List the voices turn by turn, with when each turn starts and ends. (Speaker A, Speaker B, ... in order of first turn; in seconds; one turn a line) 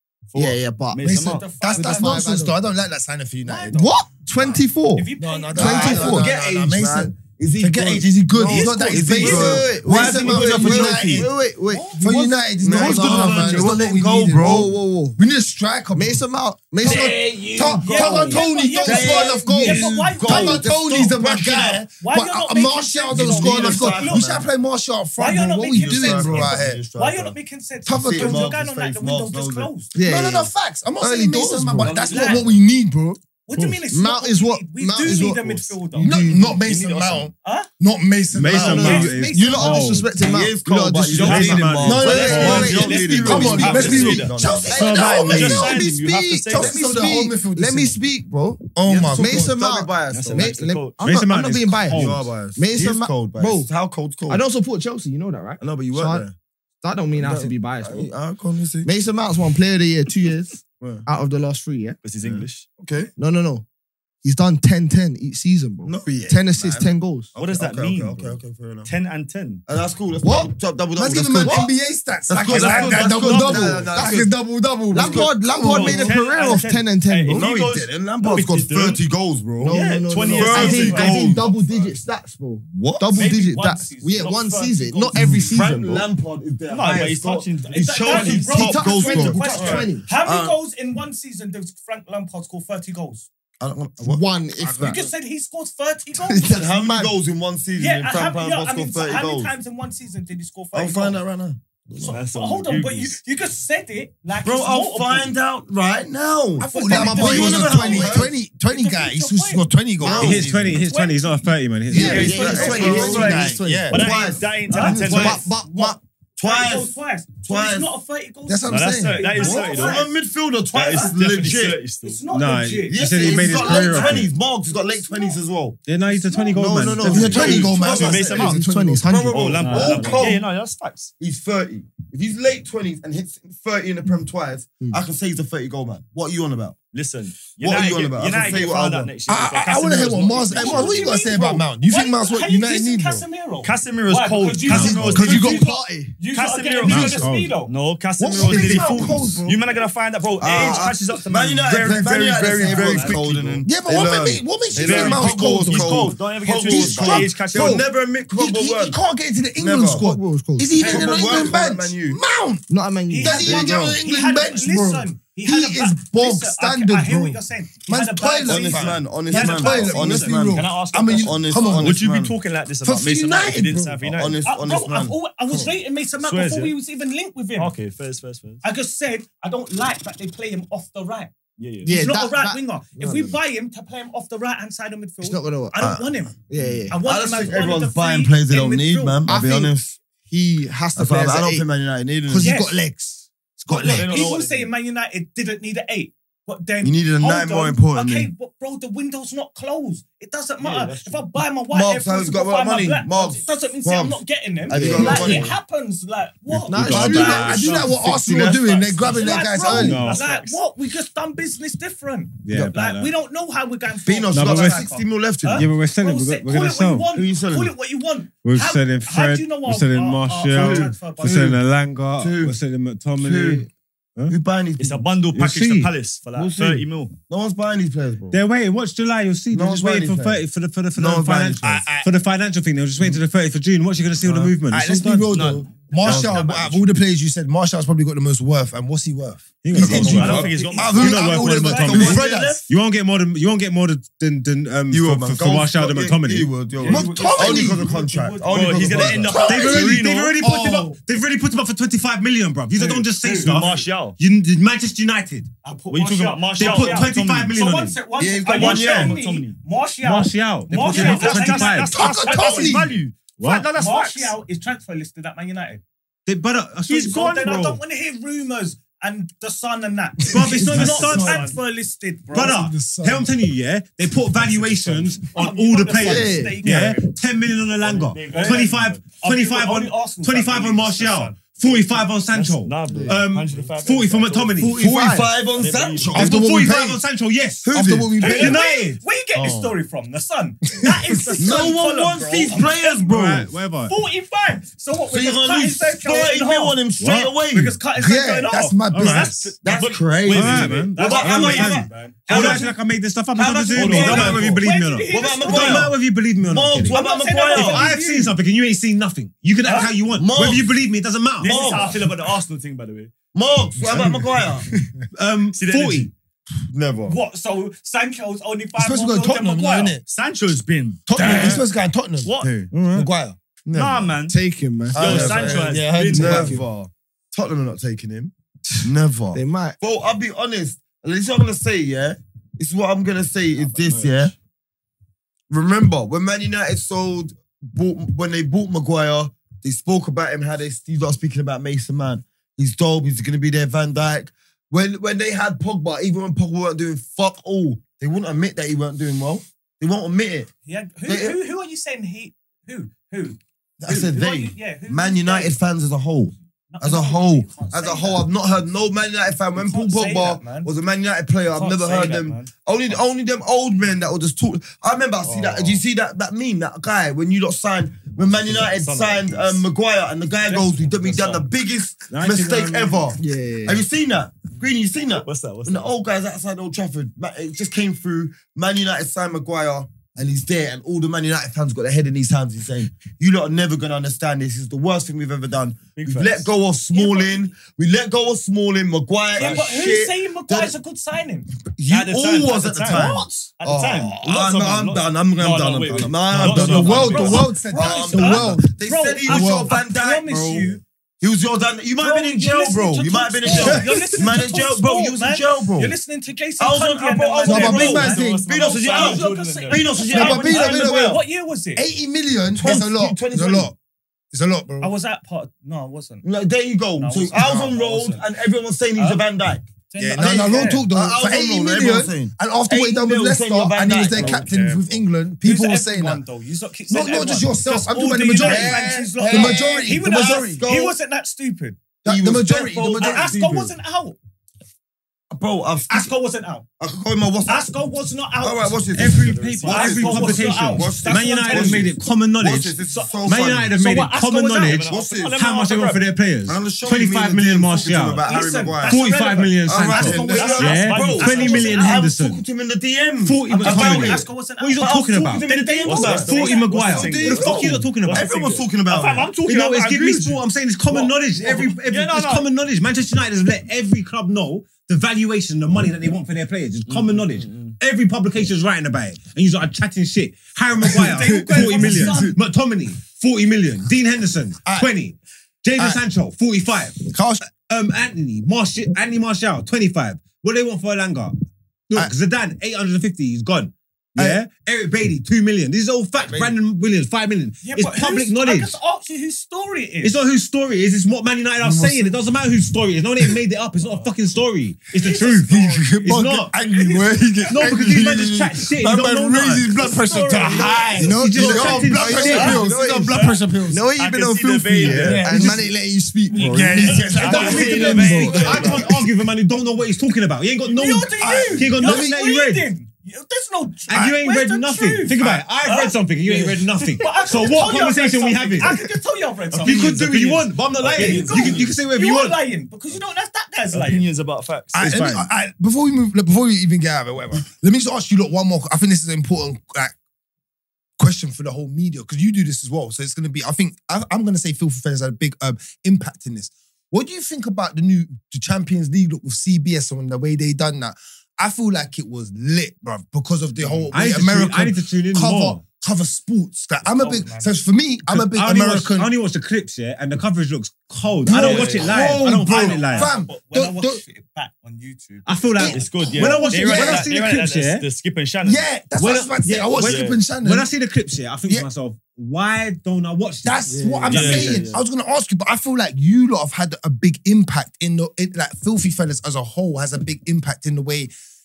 Speaker A: 0.3-1.5
Speaker B: 0.3-2.6
Speaker C: 1.0-3.9
Speaker D: 1.2-2.3
Speaker D: 3.5-3.8
Speaker B: 3.7-6.3
Speaker D: 5.0-6.2
Speaker C: 5.2-11.3
Speaker E: 5.5-11.3
Speaker D: 8.5-9.6
Speaker B: 9.0-15.2
Speaker D: 11.7-12.1
Speaker C: 12.0-16.2
Speaker E: 12.6-14.7
Speaker B: 15.9-17.6
Speaker C: 16.8-26.8
Speaker D: 16.8-24.3
Speaker E: 17.8-21.7
Speaker E: 23.1-24.5
Speaker D: 25.2-29.9
Speaker E: 25.8-27.4
Speaker C: 27.9-28.6
Speaker E: 27.9-29.7
Speaker B: 29.9-32.1
Speaker C: 30.0-33.2
Speaker E: 31.8-32.5
Speaker D: 31.9-32.5
Speaker D: 33.5-36.2
Speaker B: 33.9-36.8
Speaker C: 36.0-39.0
Speaker A: 36.5-37.3
Speaker D: 37.4-37.7
Speaker F: 38.3-40.1
Speaker B: 38.5-53.7
Speaker D: 38.8-39.9
Speaker E: 40.1-45.0
Speaker F: 41.1-42.8
Speaker A: 41.1-46.9
Speaker C: 41.8-45.9
Speaker F: 44.7-45.7
Speaker C: 46.5-48.0
Speaker C: 48.8-49.5
Speaker E: 48.8-50.6
Speaker A: 50.1-51.0
Speaker F: 51.0-52.3
Speaker E: 51.9-54.4
Speaker B: 54.3-56.3
Speaker E: 55.6-56.4
Speaker B: 56.8-58.1
Speaker E: 57.2-58.9
Speaker B: 58.8-62.0
Speaker E: 60.8-61.1
Speaker A: 62.0-62.7
Speaker E: 62.2-63.1
Speaker B: 63.2-63.6
Speaker B: 64.2-67.3
Speaker E: 65.8-68.9
Speaker A: 67.3-69.6
Speaker E: 69.7-71.7
Speaker B: 70.2-70.5
Speaker C: 71.0-76.1
Speaker E: 72.3-74.3
Speaker A: 72.5-73.3
Speaker B: 72.6-74.3
Speaker B: 74.9-77.5
Speaker E: 74.9-75.3
Speaker A: 75.5-79.0
Speaker E: 77.3-81.8
Speaker B: 79.6-86.1
Speaker A: 79.7-81.3
Speaker D: 80.5-81.3
Speaker E: 82.7-83.2
Speaker D: 83.2-84.7
Speaker A: 83.2-85.2
Speaker E: 85.2-90.6
Speaker A: 86.7-88.5
Speaker D: 87.7-93.3
Speaker B: 88.3-90.1
Speaker E: 93.6-94.3
Speaker B: 94.0-95.0
Speaker C: 94.6-95.0
Speaker D: 94.8-96.5
Speaker B: 96.2-97.1
Speaker E: 96.4-99.5
Speaker D: 97.8-101.2
Speaker E: 100.7-102.1
Speaker D: 102.0-105.3
Speaker A: 102.0-103.2
Speaker E: 104.4-108.3
Speaker C: 106.6-110.5
Speaker D: 106.6-109.7
Speaker B: 106.9-108.3
Speaker E: 110.0-110.8
Speaker B: 110.0-110.4
Speaker F: 110.2-112.4
Speaker D: 110.8-111.4
Speaker D: 111.9-113.5
Speaker B: 111.9-114.1
Speaker C: 112.0-114.0
Speaker E: 112.0-115.5
Speaker A: 112.0-113.2
Speaker A: 113.9-115.5
Speaker D: 114.7-115.9
Speaker B: 115.0-116.0
Speaker E: 116.4-117.9
Speaker D: 116.4-120.1
Speaker C: 118.5-119.2
Speaker A: 118.7-120.1
Speaker E: 119.4-121.8
Speaker A: 120.7-122.2
Speaker D: 120.9-121.1
Speaker D: 121.9-125.4
Speaker F: 122.3-124.3
Speaker E: 122.9-125.8
Speaker F: 125.9-127.7
Speaker D: 126.0-127.6
Speaker B: 126.6-127.7
Speaker E: 126.7-130.4
Speaker C: 127.0-129.0
Speaker A: 127.3-128.7
Speaker B: 128.3-129.7
Speaker A: 129.3-131.1
Speaker F: 129.6-130.3
Speaker E: 131.2-136.8
Speaker A: 136.9-141.1
Speaker E: 137.6-139.1
Speaker C: 139.3-143.2
Speaker D: 140.5-147.7
Speaker A: 143.6-145.7
Speaker F: 144.7-145.2
Speaker B: 144.9-146.2
Speaker C: 145.0-145.6
Speaker A: 146.3-153.7
Speaker F: 146.8-147.6
Speaker E: 148.2-149.3
Speaker C: 148.3-149.6
Speaker E: 150.4-159.0
Speaker D: 150.5-150.8
Speaker D: 152.6-153.2
Speaker C: 153.7-162.6
Speaker A: 154.8-157.9
Speaker E: 159.6-160.1
Speaker B: 159.8-161.2
Speaker E: 160.8-162.2
Speaker D: 160.9-161.4
Speaker B: 162.7-163.6
Speaker D: 163.1-170.5
Speaker C: 163.2-172.0
Speaker E: 163.4-164.0
Speaker E: 168.5-172.3
Speaker A: 170.5-174.4
Speaker C: 172.8-174.1
Speaker E: 174.2-175.2
Speaker D: 174.4-177.7
Speaker A: 176.2-176.8
Speaker A: 177.6-178.6
Speaker D: 178.6-181.3
Speaker A: 181.6-182.0
Speaker D: 181.8-186.4
Speaker B: 181.8-183.4
Speaker B: 185.2-185.9
Speaker E: 185.8-186.2
Speaker B: 186.4-187.0
Speaker A: 186.6-186.8
Speaker D: 186.9-189.2
Speaker E: 187.0-190.0
Speaker B: 189.3-191.7
Speaker E: 190.9-192.5
Speaker C: 192.3-194.1
Speaker D: 192.4-192.8
Speaker D: 193.7-207.7
Speaker A: 193.9-194.7
Speaker E: 196.8-198.3
Speaker A: 200.6-201.2
Speaker E: 201.7-205.6
Speaker B: 204.7-205.5
Speaker F: 206.5-207.9
Speaker B: 206.7-208.6
Speaker C: 206.9-210.0
Speaker E: 208.2-209.0
Speaker D: 209.1-221.5
Speaker A: 209.1-210.6
Speaker F: 209.7-210.2
Speaker F: 212.5-213.1
Speaker E: 214.1-215.7
Speaker F: 214.3-214.8
Speaker F: 215.5-217.1
Speaker E: 217.1-217.7
Speaker F: 218.4-224.3
Speaker E: 220.5-221.6
Speaker E: 222.2-222.6
Speaker E: 223.2-223.7
Speaker E: 224.3-225.0
Speaker A: 224.8-227.2
Speaker F: 225.3-225.9
Speaker E: 226.3-228.4
Speaker F: 228.3-235.2
Speaker E: 229.5-230.4
Speaker E: 230.9-231.7
Speaker C: 231.6-232.1
Speaker E: 234.2-234.6
Speaker C: 234.7-242.6
Speaker A: 235.3-236.8
Speaker F: 236.1-236.3
Speaker E: 236.1-236.4
Speaker F: 239.6-246.5
Speaker E: 239.7-242.7
Speaker A: 239.8-241.3
Speaker E: 244.9-249.4
Speaker D: 246.8-249.4
Speaker C: 246.8-247.9
Speaker A: 248.5-250.4
Speaker C: 249.3-250.9
Speaker F: 249.4-255.5
Speaker A: 253.3-254.2
Speaker D: 255.6-262.9
Speaker A: 255.9-257.6
Speaker F: 256.6-258.0
Speaker E: 258.2-259.2
Speaker A: 258.4-259.6
Speaker F: 260.0-262.0
Speaker A: 260.7-264.3
Speaker C: 261.9-263.0
Speaker F: 263.4-263.7
Speaker D: 263.7-265.8
Speaker F: 266.3-267.8
Speaker A: 266.9-267.8
Speaker D: 266.9-272.6
Speaker F: 270.2-271.6
Speaker C: 270.4-271.4
Speaker F: 272.3-284.9
Speaker B: 272.4-273.2
Speaker C: 272.4-273.2
Speaker A: 274.4-277.1
Speaker D: 275.3-277.0
Speaker B: 276.0-276.6
Speaker A: 277.7-279.0
Speaker D: 278.3-282.0
Speaker A: 282.3-284.6
Speaker B: 282.9-283.2
Speaker B: 284.6-285.3
Speaker E: 284.8-286.5
Speaker A: 285.6-286.3
Speaker C: 286.1-287.0
Speaker F: 286.1-287.7
Speaker E: 287.6-288.5
Speaker C: 287.7-288.6
Speaker D: 288.2-296.8
Speaker F: 288.2-289.0
Speaker E: 289.4-289.7
Speaker C: 290.8-291.4
Speaker E: 291.4-293.5
Speaker F: 293.1-294.0
Speaker E: 295.1-297.8
Speaker F: 297.0-297.3
Speaker D: 297.4-299.6
Speaker C: 298.0-299.5
Speaker F: 298.9-299.3
Speaker A: 299.6-302.6
Speaker E: 299.6-302.6
Speaker F: 300.3-311.6
Speaker D: 300.9-302.7
Speaker E: 303.4-307.9
Speaker A: 303.8-304.5
Speaker D: 303.8-305.9
Speaker D: 306.9-308.4
Speaker D: 309.6-310.0
Speaker E: 310.1-310.7
Speaker A: 311.4-313.1
Speaker E: 311.4-312.0
Speaker D: 311.4-312.0
Speaker E: 313.3-314.7
Speaker F: 315.1-316.1
Speaker A: 315.5-316.1
Speaker E: 316.7-317.2
Speaker D: 317.1-320.0
Speaker C: 318.8-320.0
Speaker A: 320.1-321.6
Speaker C: 321.1-322.3
Speaker E: 321.2-321.6
Speaker A: 322.2-322.5
Speaker E: 322.3-322.7
Speaker F: 322.7-323.1
Speaker C: 322.9-323.4
Speaker E: 323.6-324.1
Speaker A: 323.7-324.4
Speaker B: 324.3-326.6
Speaker A: 324.9-326.6
Speaker E: 324.9-334.3
Speaker B: 329.3-329.8
Speaker A: 333.7-334.2
Speaker E: 335.5-350.5
Speaker D: 350.6-355.6
Speaker E: 351.1-351.4
Speaker E: 353.8-390.8
Speaker D: 356.7-358.3
Speaker D: 359.6-360.7
Speaker D: 361.6-362.5
Speaker A: 361.9-362.2
Speaker A: 365.2-365.8
Speaker A: 368.1-369.6
Speaker D: 370.5-371.4
Speaker F: 372.1-373.1
Speaker B: 373.2-373.8
Speaker A: 375.1-375.9
Speaker A: 385.9-386.5
Speaker D: 386.9-387.5
Speaker D: 389.4-391.5
Speaker A: 389.4-389.6
Speaker E: 391.6-405.9
Speaker A: 391.9-397.5
Speaker D: 392.9-393.5
Speaker C: 396.3-398.7
Speaker D: 396.9-400.8
Speaker C: 399.3-399.7
Speaker D: 402.0-411.8
Speaker C: 403.6-404.0
Speaker E: 406.6-411.1
Speaker C: 407.4-408.4
Speaker A: 407.6-410.1
Speaker C: 410.1-411.2
Speaker C: 411.8-413.8
Speaker E: 412.6-413.7
Speaker C: 414.3-414.9
Speaker D: 414.8-416.2
Speaker E: 416.2-424.5
Speaker D: 417.0-418.2
Speaker D: 419.0-419.2
Speaker D: 419.9-420.9
Speaker C: 420.0-426.2
Speaker D: 424.1-432.0
Speaker C: 426.9-430.6
Speaker E: 428.4-431.0
Speaker C: 432.0-433.7
Speaker E: 432.1-433.6
Speaker D: 432.6-434.2
Speaker E: 435.3-436.1
Speaker D: 435.9-436.7
Speaker E: 436.8-437.7
Speaker D: 437.4-439.0
Speaker E: 438.4-443.8
Speaker F: 438.9-452.4
Speaker A: 439.0-440.5
Speaker D: 439.6-441.9
Speaker D: 442.8-443.2
Speaker D: 443.7-444.9
Speaker A: 444.6-446.0
Speaker E: 444.9-445.4
Speaker E: 446.5-449.0
Speaker D: 448.2-452.1
Speaker E: 449.6-456.3
Speaker A: 450.3-451.7
Speaker F: 453.2-455.5
Speaker D: 453.5-457.5
Speaker A: 455.9-458.7
Speaker F: 456.0-458.3
Speaker E: 456.9-459.3
Speaker D: 458.9-460.4
Speaker F: 459.4-477.1
Speaker D: 460.9-461.7
Speaker A: 461.4-462.5
Speaker A: 466.9-467.8
Speaker C: 470.8-472.3
Speaker D: 470.9-472.4
Speaker C: 477.1-477.4
Speaker F: 477.6-481.4
Speaker F: 481.9-488.8
Speaker D: 487.6-490.2
Speaker F: 490.0-496.5
Speaker C: 491.6-492.2
Speaker D: 494.9-496.0
Speaker C: 495.7-503.9
Speaker B: 496.5-497.4
Speaker D: 496.8-497.5
Speaker F: 497.5-502.6
Speaker D: 499.8-501.1
Speaker B: 499.8-508.6
Speaker E: 501.4-503.2
Speaker D: 502.3-502.6
Speaker A: 504.0-505.3
Speaker C: 504.8-505.7
Speaker C: 506.3-509.0
Speaker D: 506.6-508.9
Speaker A: 506.9-508.9
Speaker F: 507.2-512.7
Speaker D: 510.6-520.3
Speaker C: 511.2-512.1
Speaker F: 513.9-518.9
Speaker A: 519.5-521.8
Speaker F: 519.6-522.4
Speaker D: 520.8-524.1
Speaker A: 523.7-524.9
Speaker C: 524.7-530.0
Speaker F: 524.8-525.3
Speaker C: 531.0-549.1
Speaker F: 543.9-545.6
Speaker D: 546.9-547.5
Speaker F: 548.1-553.1
Speaker C: 551.2-554.0
Speaker A: 551.3-551.7
Speaker D: 551.5-556.0
Speaker F: 555.3-557.9
Speaker C: 555.6-557.1
Speaker A: 555.7-558.7
Speaker C: 558.4-560.7
Speaker F: 559.0-564.6
Speaker A: 559.8-560.2
Speaker C: 563.4-571.1
Speaker B: 563.7-564.6
Speaker A: 564.1-564.8